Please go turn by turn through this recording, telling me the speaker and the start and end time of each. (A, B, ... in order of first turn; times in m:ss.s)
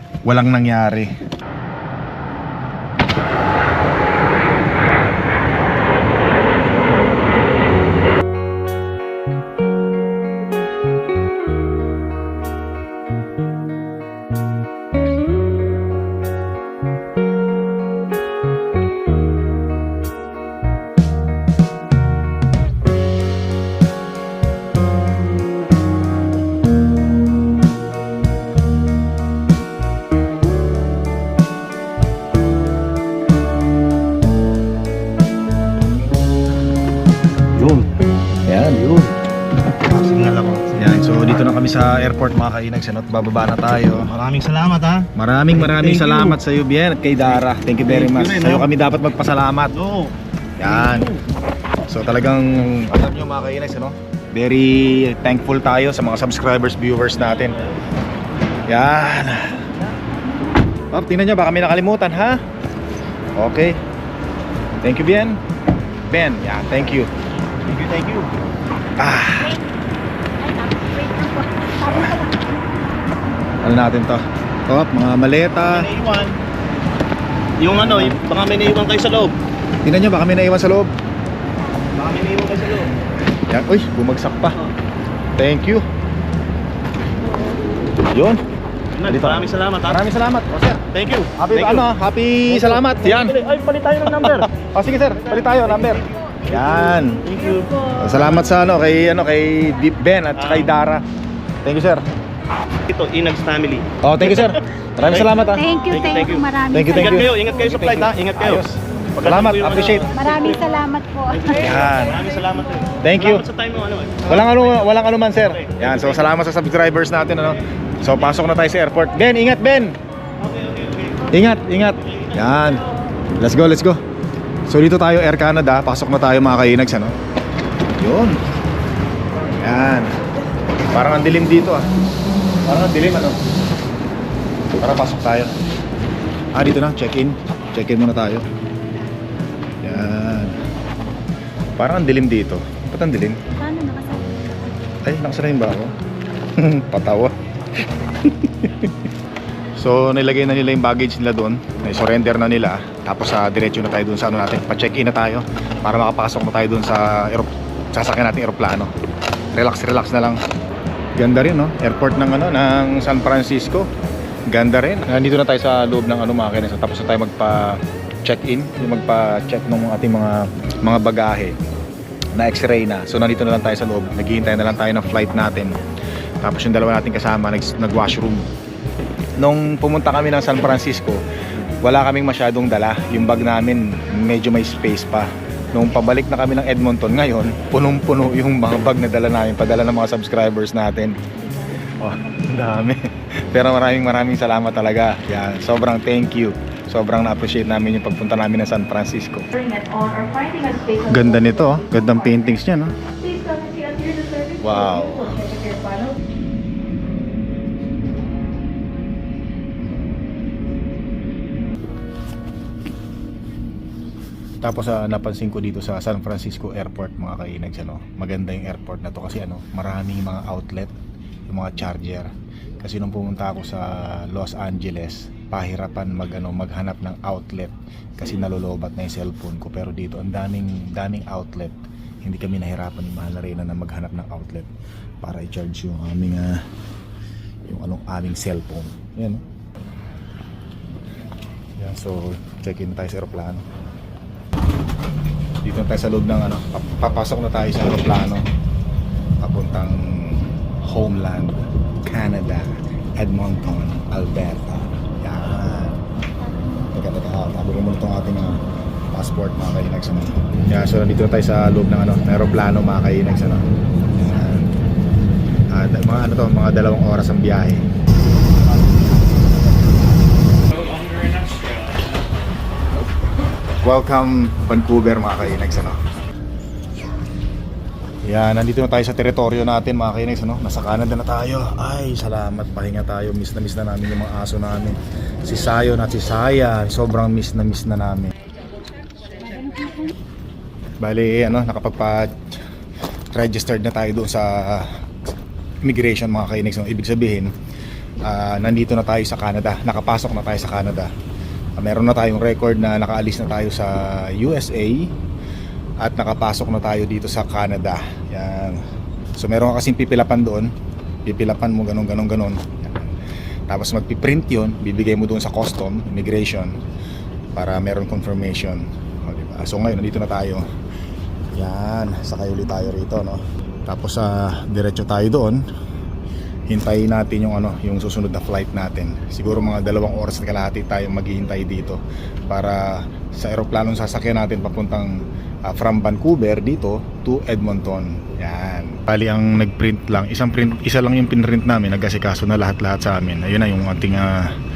0:00.2-0:01.1 A
0:37.5-0:37.9 B
0:38.4-0:38.8 A
0:38.7-0:39.1 B
0:39.8-0:41.0 B
0:40.8-0:44.1 A
0:44.0-0:46.4 B
0:45.1-0:49.7 A
0:47.2-0:48.8 B
0:49.7-0:51.2 B
0:50.6-0:51.1 A
0:51.9-0:57.6 A
0:58.7-0:59.6 A
1:00.9-1:02.4 A
1:03.4-1:03.8 A
1:04.8-1:05.4 A
1:06.1-1:07.1 A
1:07.6-1:08.3 B
1:09.0-1:09.6 A
1:10.4-1:12.7 C
1:11.8-1:12.2 A
1:13.6-1:15.9 A
1:15.6-1:16.4 B
1:17.6-1:19.4 B
1:17.7-1:18.2 A
1:19.8-1:20.9 A
1:21.9-1:22.9 B
1:23.5-1:24.6 A
1:25.4-1:25.8 A
1:28.1-1:28.4 A
1:28.9-1:30.0 B
1:29.1-1:37.2 A
1:30.9-1:31.9 B
1:32.5-1:34.5 B
1:35.2-1:38.6 B
1:37.3-1:37.9 C
1:38.0-1:41.0 A
1:40.3-1:40.7 B
1:41.6-1:42.0 A
1:42.8-1:48.6 B
1:44.0-1:45.6 A
1:45.5-1:47.6 C
1:46.7-1:50.1 A
1:49.2-1:56.3 B
1:50.1-1:52.9 C
1:51.6-1:52.2 A
1:53.0-1:53.4 A
1:54.2-2:00.0 A
1:58.1-1:58.5 B
2:00.4-2:01.3 B
2:01.3-2:02.8 A
2:02.0-2:02.8 B
2:03.4-2:04.0 A
2:04.7-2:07.1 A
2:08.0-2:08.4 A
2:09.6-2:10.1 A
2:10.9-2:11.9 A
2:12.6-2:13.4 A
2:14.8-2:15.5 A
2:16.5-2:18.4 A
2:19.8-2:20.6 A
2:21.8-2:23.4 A
2:23.5-2:24.9 C
2:25.0-2:25.9 A
2:26.6-2:27.3 A
2:28.2-2:28.9 A
2:29.8-2:38.9 A
2:39.5-2:40.4 A
2:41.2-2:43.9 A
2:44.5-2:51.6 A
2:52.3-2:55.7 A
2:56.4-2:58.5 A
2:59.4-3:01.2 A
3:01.8-3:11.2 A
3:12.0-3:19.5 A
3:19.5-3:22.5 C
3:21.1-3:22.9 A
3:23.0-3:26.2 C
3:24.6-3:25.3 A
3:34.6-3:40.9 A
3:41.5-3:54.7 A
3:55.2-3:56.6 A
3:57.6-3:59.4 A
4:01.8-4:03.6 A
4:05.6-4:08.4 A
4:09.4-4:16.0 A
4:16.6-4:16.8 C
4:16.9-4:18.6 A
4:19.1-4:24.7 A
4:25.7-4:27.8 A
4:33.8-4:36.0 A
4:38.2-4:48.3 A
4:49.4-4:50.1 C
4:51.0-4:52.4 A
4:53.3-4:54.9 A
4:55.8-4:57.5 A
4:58.2-5:01.1 A
5:01.8-5:05.1 A
5:06.0-5:08.8 A
5:09.4-5:10.7 A
5:11.2-5:13.1 A
5:13.7-5:16.8 A
5:17.5-5:20.7 A
5:21.5-5:25.6 A
5:26.7-5:44.5 A